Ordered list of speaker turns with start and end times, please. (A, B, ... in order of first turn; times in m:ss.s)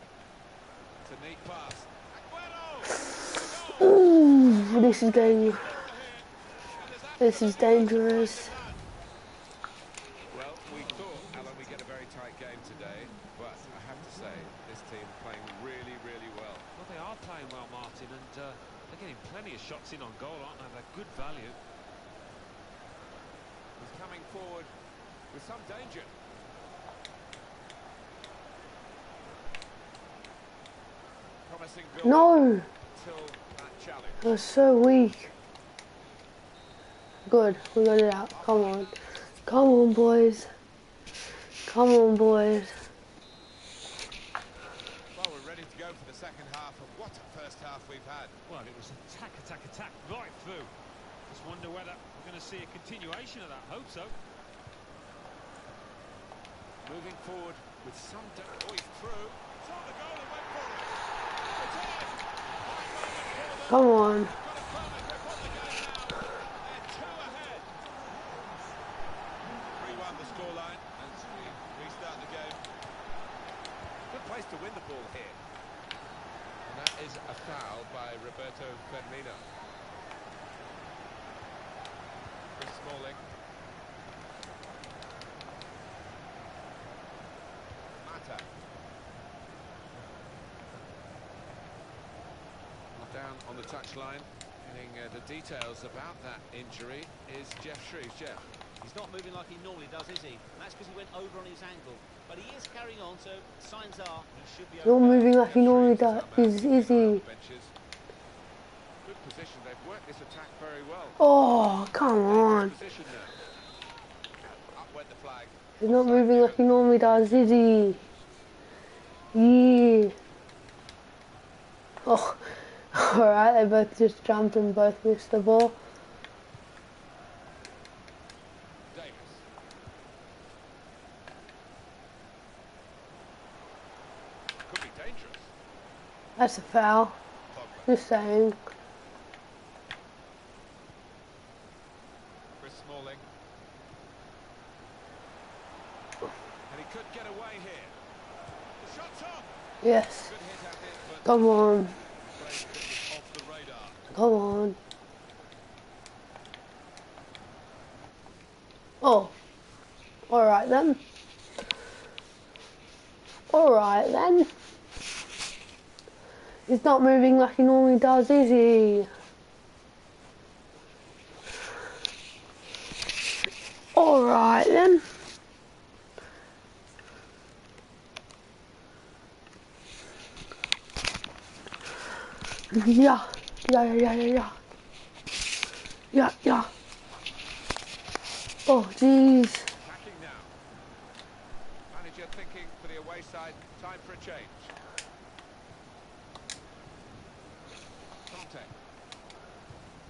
0:01.0-0:08.8 A
0:03.7-0:05.6 B
0:07.2-0:08.5 B
0:10.3-0:16.7 A
0:16.8-0:21.6 C
0:23.8-0:24.7 A
0:25.3-0:26.2 A
0:31.5-0:34.3 A
0:32.0-0:32.7 B
0:34.2-0:35.3 B
0:37.3-0:38.9 B
0:38.3-0:39.0 A
0:39.5-0:40.5 B
0:41.7-0:42.8 B
0:45.1-0:48.4 A
0:48.5-0:50.7 C
0:51.3-0:54.2 C
0:56.8-1:01.0 A
1:01.6-1:07.7 A
1:03.7-1:04.3 B
1:09.7-1:12.6 A
1:14.1-1:15.4 A
1:16.7-1:19.5 A
1:22.6-1:23.2 A
1:28.0-1:28.6 A
1:32.9-1:38.5 A
1:38.8-1:45.3 D
1:44.8-1:47.2 B
1:45.0-1:47.7 A
1:49.0-1:51.2 A
1:51.2-1:52.7 B
1:52.2-1:53.4 A
1:54.7-1:57.5 A
1:55.8-1:58.0 B
1:59.3-2:00.2 B
2:02.0-2:05.8 B
2:08.9-2:09.4 A
2:14.7-2:15.5 A
2:16.4-2:17.2 B
2:17.5-2:17.9 A
2:17.9-2:18.6 B
2:22.6-2:23.3 A
2:26.7-2:28.0 A
2:28.8-2:29.5 A
2:29.8-2:30.3 B
2:30.2-2:31.6 A
2:31.2-2:32.0 B
2:32.3-2:34.0 A
2:34.1-2:34.8 B
2:39.0-2:39.3 B
2:40.3-2:41.0 B
2:43.5-2:44.5 B
2:46.7-2:49.1 B
2:54.0-2:55.1 B
3:02.7-3:04.6 B
3:06.1-3:06.7 B
3:08.7-3:09.7 B
3:09.8-3:10.6 A
3:11.9-3:14.8 A
3:18.3-3:18.7 A